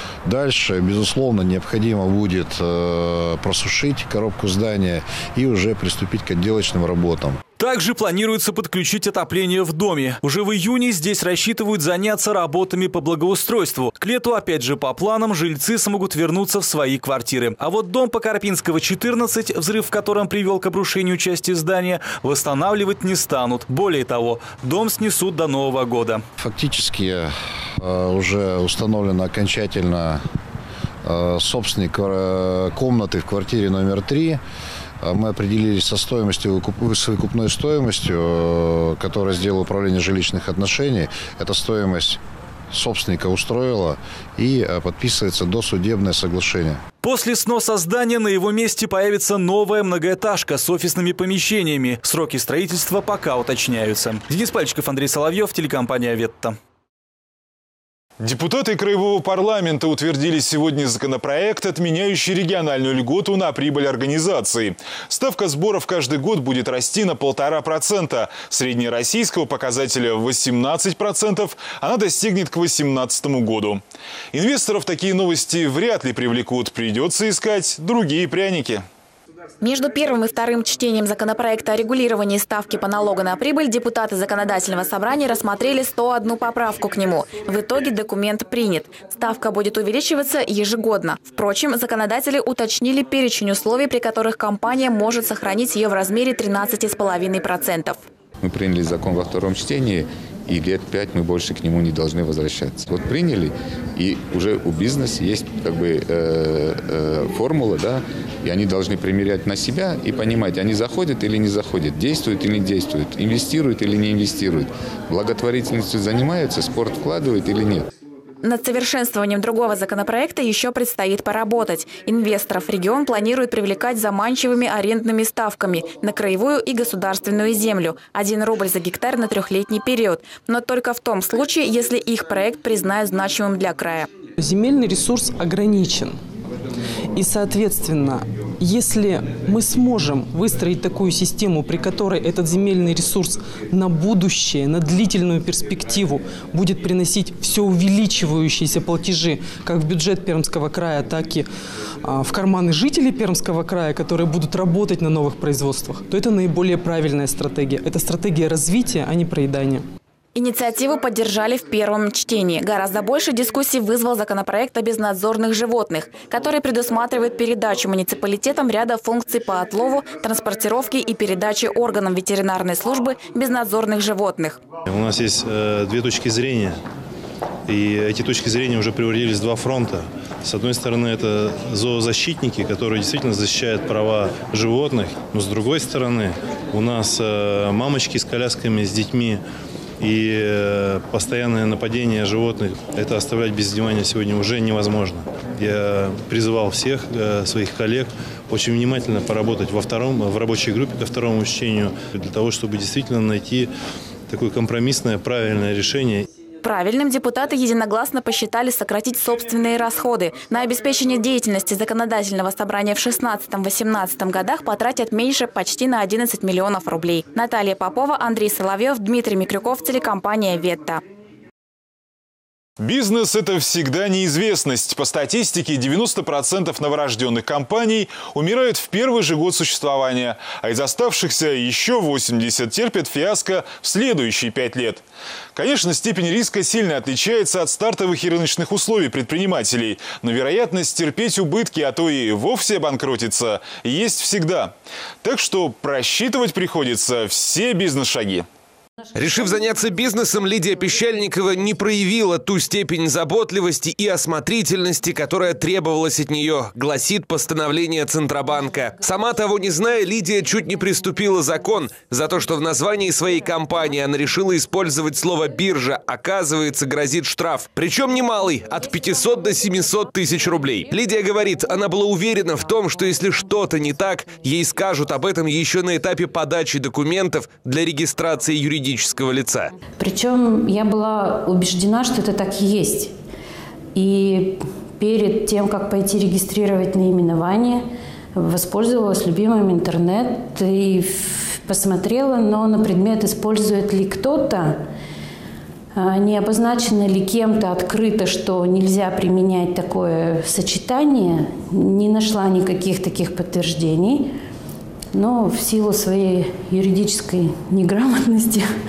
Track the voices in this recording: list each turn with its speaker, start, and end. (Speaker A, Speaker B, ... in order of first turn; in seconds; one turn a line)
Speaker A: 0.2-7.4
Speaker B: 7.6-26.2
Speaker A: 26.4-30.2
Speaker A: 31.0-34.4
Speaker A: 35.0-42.2
Speaker A: 42.7-46.8
Speaker B: 47.0-56.5
Speaker C: 58.2-73.8
Speaker C: 74.3-78.8
Speaker D: 79.6-98.0
Speaker E: 98.4-117.9
Speaker D: 118.4-134.1
Speaker F: 134.4-136.2
Speaker F: 137.2-151.5
Speaker F: 152.1-159.8
Speaker D: 160.3-174.6
Speaker G: 174.9-176.8
Speaker G: 177.7-189.4
Speaker G: 190.0-203.7
Speaker G: 204.3-206.2
Speaker D: 206.6-221.0
Speaker C: 222.8-235.0
Speaker C: 235.6-248.4
Speaker H: 249.2-279.7
Speaker I: 280.0-283.1
Speaker I: 283.9-294.8
Speaker I: 295.9-304.3
Speaker I: 305.1-308.7